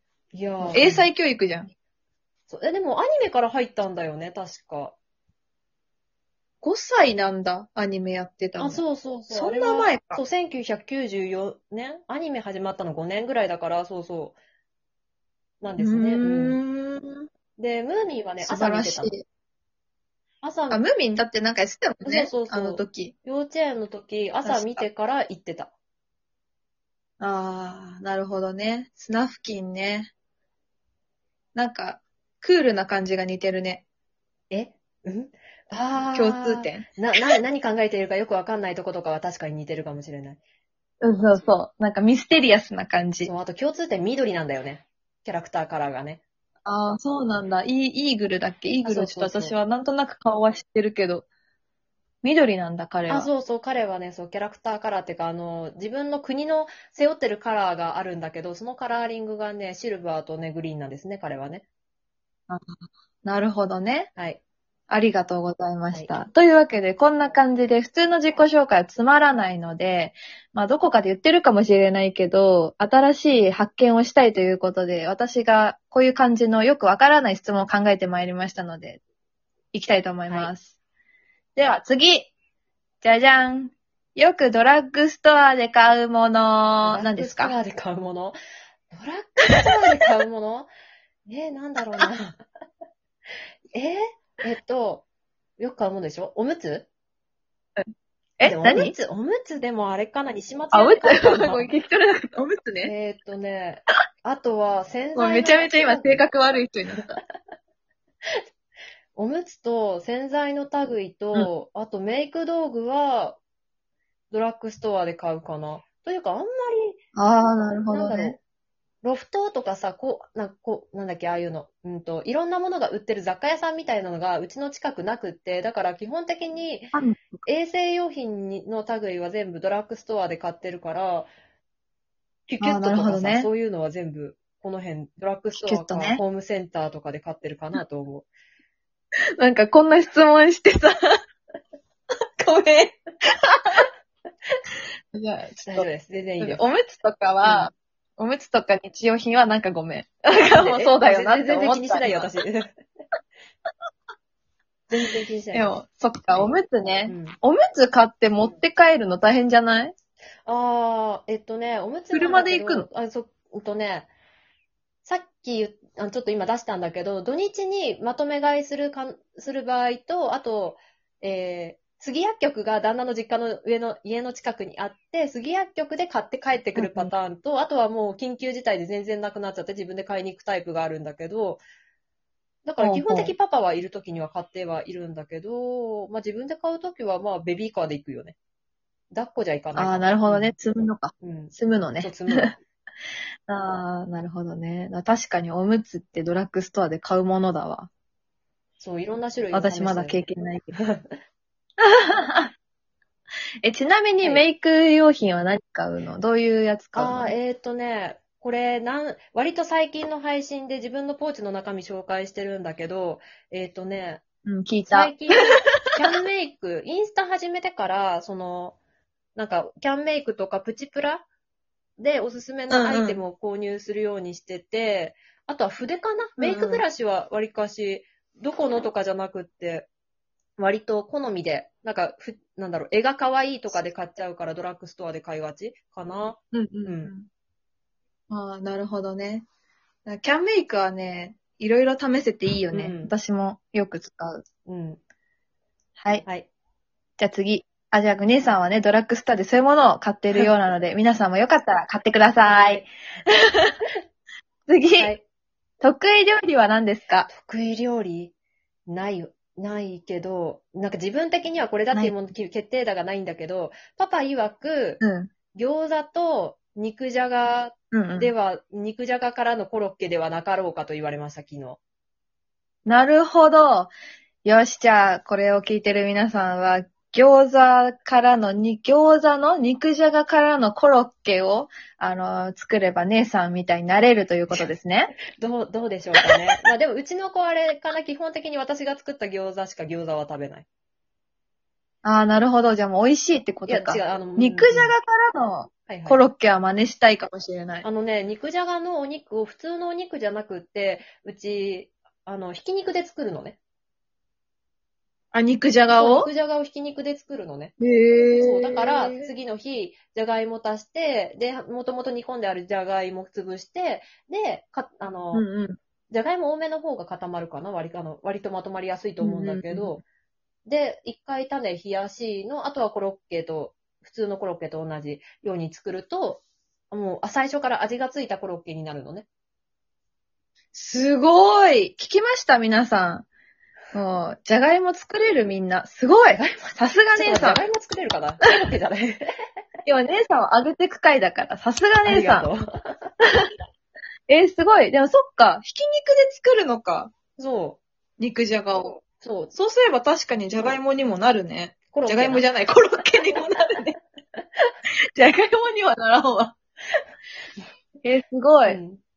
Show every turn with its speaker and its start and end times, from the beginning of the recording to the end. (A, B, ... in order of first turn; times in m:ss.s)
0:00.3-0:01.1 A
0:00.6-0:01.7 B
0:02.5-0:04.9 A
0:06.6-0:10.2 B
0:08.6-0:14.4 A
0:15.6-0:16.6 A
0:15.8-0:17.3 B
0:17.6-0:19.1 A
0:18.4-0:19.2 B
0:20.4-0:20.8 A
0:20.7-0:23.1 B
0:22.0-0:25.7 A
0:24.4-0:24.8 B
0:27.2-0:30.1 B
0:31.5-0:33.8 B
0:34.5-0:40.4 A
0:36.1-0:37.3 B
0:41.0-0:43.3 B
0:43.2-0:46.2 A
0:46.6-0:51.2 B
0:48.8-0:49.6 A
0:52.2-0:53.3 B
0:53.1-1:01.6 A
1:02.5-1:04.1 B
1:04.9-1:19.0 B
1:19.7-1:20.7 B
1:21.6-1:22.3 B
1:23.0-1:27.6 B
1:26.8-1:28.4 A
1:28.9-1:30.7 A
1:31.3-1:32.4 A
1:33.7-1:35.0 A
1:35.6-1:36.9 A
1:38.4-1:38.9 B
1:38.4-1:41.7 A
1:40.7-1:42.9 B
1:42.8-1:46.2 A
1:45.1-1:47.2 B
1:49.1-1:53.4 A
1:54.3-1:57.0 A
1:57.2-1:58.4 B
1:57.9-1:58.4 A
1:59.0-2:06.9 A
2:06.9-2:07.4 B
2:07.4-2:11.3 A
2:12.5-2:18.3 A
2:12.6-2:13.5 B
2:15.6-2:16.2 B
2:19.4-2:21.2 B
2:22.4-2:23.8 B
2:25.1-2:25.9 B
2:25.6-2:26.6 A
2:26.4-2:32.3 B
2:27.4-2:27.7 A
2:30.5-2:32.7 A
2:34.9-2:35.7 A
2:35.5-2:39.9 B
2:37.1-2:37.4 A
2:40.4-2:44.1 A
2:42.1-2:42.9 B
2:45.0-3:01.6 A
2:56.8-2:57.1 B
3:02.6-3:08.3 A
3:02.8-3:03.3 B
3:09.1-3:10.5 A
3:09.7-3:12.5 B
3:11.2-3:12.6 A
3:13.5-3:17.9 B
3:18.8-3:20.2 A
3:19.5-3:20.8 B
3:20.7-3:21.1 A
3:21.8-3:22.5 B
3:23.6-3:27.3 B
3:24.2-3:24.4 A
3:26.9-3:34.2 A
3:34.4-3:35.2 B
3:34.8-3:38.8 A
3:39.4-3:41.2 A
3:42.0-3:49.9 A
3:42.7-3:43.2 B
3:46.4-3:46.8 B
3:50.6-3:57.1 A
3:56.5-3:57.3 B
3:58.3-3:59.4 B
4:00.0-4:04.4 B
4:02.7-4:03.1 A
4:04.6-4:05.0 A
4:06.0-4:06.2 B
4:07.2-4:13.8 B
4:12.4-4:12.9 A
4:14.7-4:15.1 B
4:15.0-4:15.2 A
4:15.8-4:17.3 B
4:17.3-4:18.3 A
4:18.9-4:25.0 A
4:25.0-4:25.3 B
4:25.5-4:31.8 A
4:27.9-4:28.3 B
4:32.8-4:33.9 B
4:34.4-4:45.1 B
4:45.4-4:50.6 A
4:52.0-4:57.8 B
4:53.7-4:54.9 A
4:55.9-4:56.2 A
4:57.8-5:03.6 A
5:05.3-5:06.3 B
5:05.9-5:07.7 A
5:07.8-5:09.3 B
5:08.4-5:15.4 A
5:15.3-5:15.8 B
5:16.1-5:20.0 A
5:19.2-5:20.0 B
5:20.6-5:29.2 A
5:30.7-5:33.2 B
5:33.9-5:37.6 B
5:37.1-5:39.2 A
5:39.8-5:42.5 B
5:42.0-5:43.1 A
5:43.2-5:43.5 B
5:44.3-5:47.1 B
5:47.4-5:47.8 A
5:48.2-5:49.0 B
5:49.2-5:49.5 A
5:49.5-5:54.0 B
5:51.9-5:52.4 A
5:55.2-5:56.5 B
5:58.0-5:58.8 B
5:58.6-5:59.0 A